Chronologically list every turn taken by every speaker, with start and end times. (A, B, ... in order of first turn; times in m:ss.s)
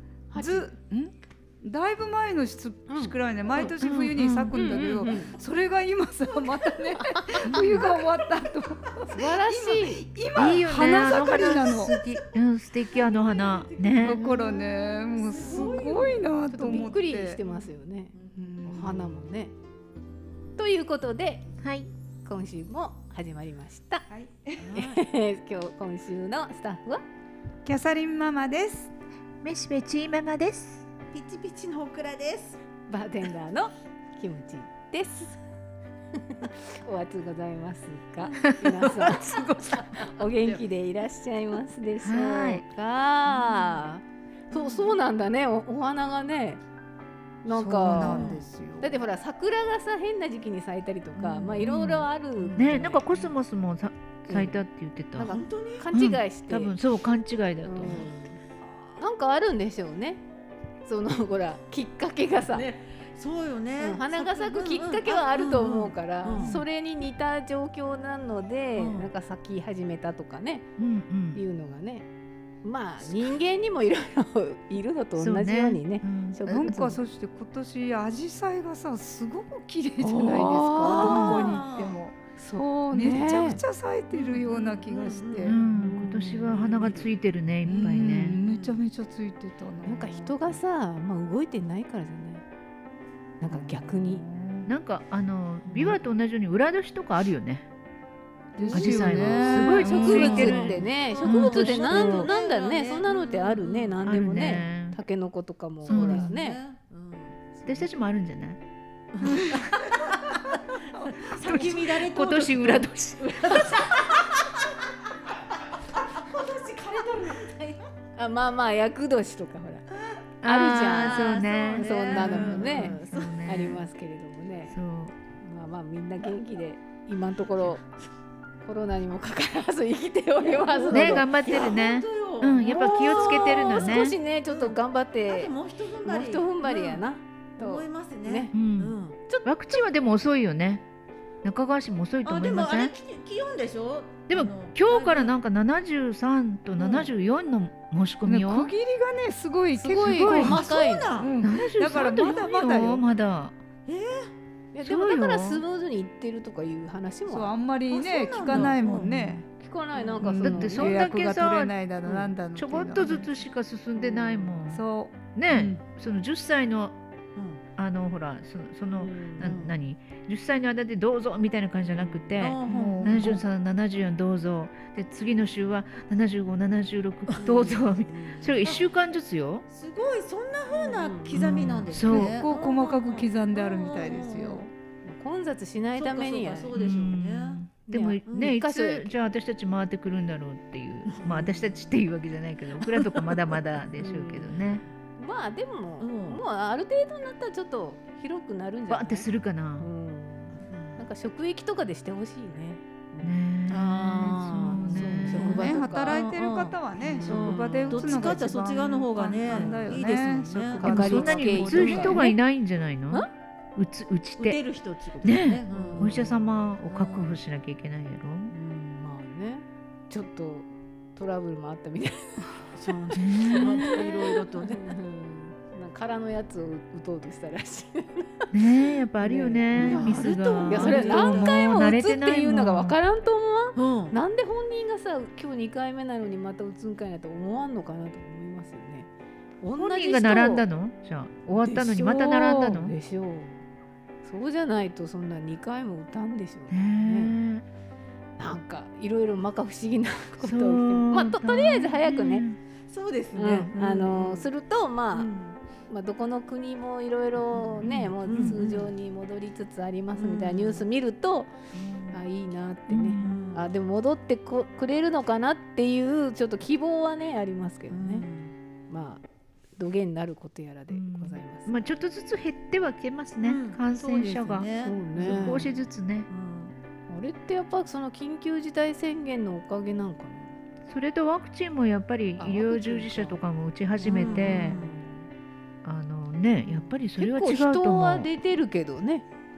0:00.3-0:00.7 A
0:00.3-0:12.0 B
0:02.9-0:03.7 A
0:03.7-0:04.6 C
0:04.5-0:05.3 A
0:07.0-0:07.6 A
0:07.5-0:07.8 C
0:09.1-0:10.0 A
0:10.4-0:14.3 C
0:11.1-0:12.4 D
0:12.9-0:16.9 D
0:14.0-0:17.4 B
0:15.4-0:15.9 A
0:16.5-0:18.1 A
0:18.2-0:19.2 D
0:18.4-0:19.0 B
0:18.7-0:19.5 A
0:20.6-0:21.5 A
0:21.6-0:21.9 C
0:22.2-0:24.0 A
0:24.1-0:24.7 B
0:24.6-0:25.0 D
0:24.8-0:27.0 A
0:27.6-0:28.9 B
0:29.4-0:30.9 C
0:31.1-0:32.6 D
0:32.9-0:35.4 A
0:36.2-0:46.6 A
0:38.4-0:39.8 C
0:42.0-0:42.6 C
0:47.4-0:53.1 A
0:47.5-0:49.0 B
0:48.0-0:48.4 D
0:51.2-0:51.8 D
0:51.6-0:55.4 C
0:52.4-0:53.3 D
0:54.3-0:54.6 A
0:55.2-0:56.8 A
0:55.3-0:55.9 D
0:55.9-0:58.1 C
0:57.6-0:58.4 A
0:59.0-1:00.2 A
1:00.9-1:02.7 A
1:02.4-1:06.6 D
1:03.8-1:10.7 A
1:06.3-1:06.6 C
1:08.8-1:09.1 D
1:10.8-1:11.4 C
1:11.4-1:12.1 A
1:12.6-1:17.0 A
1:15.2-1:17.0 C
1:16.5-1:22.2 B
1:20.0-1:21.6 A
1:20.8-1:22.0 D
1:21.0-1:21.6 C
1:22.4-1:23.6 A
1:22.9-1:25.6 B
1:24.1-1:27.1 D
1:25.4-1:28.4 C
1:25.6-1:26.5 A
1:27.6-1:30.6 B
1:27.7-1:28.8 D
1:29.8-1:32.4 A
1:33.4-1:34.2 A
1:34.0-1:34.7 B
1:34.7-1:37.7 C
1:38.6-1:40.8 B
1:38.6-1:46.6 A
1:38.7-1:44.0 D
1:38.7-1:42.3 C
1:44.0-1:45.0 C
1:45.8-1:47.4 D
1:45.9-1:46.3 C
1:47.6-1:47.8 A
1:47.7-1:48.6 C
1:49.1-1:54.8 D
1:49.2-1:49.8 C
1:51.3-1:53.9 C
1:56.0-1:57.9 D
1:58.2-1:59.9 A
2:00.4-2:03.8 C
2:00.4-2:04.8 A
2:00.7-2:03.3 D
2:04.7-2:05.2 C
2:05.4-2:07.8 A
2:08.6-2:11.3 A
2:10.4-2:14.8 D
2:10.9-2:14.2 C
2:12.6-2:15.5 A
2:15.3-2:17.0 D
2:16.0-2:18.5 A
2:17.6-2:19.2 D
2:18.5-2:20.8 C
2:21.4-2:22.9 C
2:22.2-2:25.3 D
2:24.3-2:28.7 C
2:26.8-2:27.1 D
2:28.2-2:30.6 B
2:29.8-2:31.2 A
2:30.0-2:30.6 C
2:30.3-2:31.5 D
2:31.2-2:33.0 B
2:31.4-2:33.6 C
2:32.1-2:32.4 D
2:33.9-2:34.3 D
2:34.7-2:37.5 A
2:34.8-2:35.6 C
2:37.3-2:39.5 B
2:37.9-2:39.1 D
2:38.9-2:39.4 C
2:39.5-2:41.0 A
2:40.0-2:40.3 D
2:40.2-2:43.3 B
2:40.4-2:41.8 C
2:42.6-2:47.0 C
2:44.6-2:45.8 B
2:47.4-2:47.6 D
2:47.8-2:59.6 C
2:49.0-2:49.6 A
2:49.4-2:49.7 D
2:52.4-2:53.4 D
2:52.7-2:53.3 B
2:57.3-2:57.9 D
2:58.1-2:58.5 A
2:59.7-3:04.7 D
3:00.7-3:01.7 A
3:01.3-3:02.4 C
3:01.9-3:04.7 B
3:05.0-3:06.7 A
3:06.0-3:07.6 D
3:06.7-3:14.8 C
3:07.9-3:09.2 A
3:08.3-3:08.6 D
3:11.1-3:11.9 D
3:12.8-3:13.4 D
3:14.0-3:14.6 A
3:15.2-3:19.3 A
3:16.0-3:16.4 D
3:18.9-3:19.9 C
3:19.8-3:23.4 A
3:20.7-3:21.0 D
3:23.2-3:25.7 C
3:23.7-3:32.2 D
3:24.9-3:26.2 A
3:25.0-3:32.2 B
3:27.3-3:28.4 A
3:29.5-3:30.0 A
3:30.8-3:32.4 A
3:30.8-3:34.6 C
3:34.4-3:37.4 D
3:35.2-3:38.5 C
3:35.7-3:36.3 A
3:38.5-3:48.5 A
3:42.7-3:44.8 D
3:43.1-3:44.0 C
3:48.5-3:53.0 C
3:49.2-3:59.1 A
3:49.8-3:51.5 D
3:53.8-3:54.2 D
3:59.6-4:00.6 A
3:59.8-4:02.9 C
4:01.5-4:03.6 A
4:04.2-4:07.4 A
4:06.7-4:07.6 C
4:08.4-4:12.4 A
4:10.4-4:12.6 C
4:12.9-4:14.5 D
4:13.4-4:15.3 A
4:15.1-4:15.6 D
4:15.9-4:21.5 A
4:17.6-4:18.6 C
4:18.2-4:18.9 D
4:20.2-4:20.9 D
4:21.7-4:22.2 C
4:22.1-4:28.3 A
4:22.9-4:23.4 C
4:23.2-4:23.7 D
4:27.9-4:28.5 D
4:28.9-4:29.2 A
4:29.8-4:31.8 A
4:30.9-4:36.3 C
4:33.4-4:35.7 D
4:34.8-4:35.7 A
4:36.3-4:36.8 D
4:37.1-4:40.6 A
4:40.9-4:44.8 C
4:42.4-4:43.4 A
4:44.0-4:45.2 A
4:44.0-4:45.0 D
4:45.8-4:48.3 C
4:47.2-4:49.2 A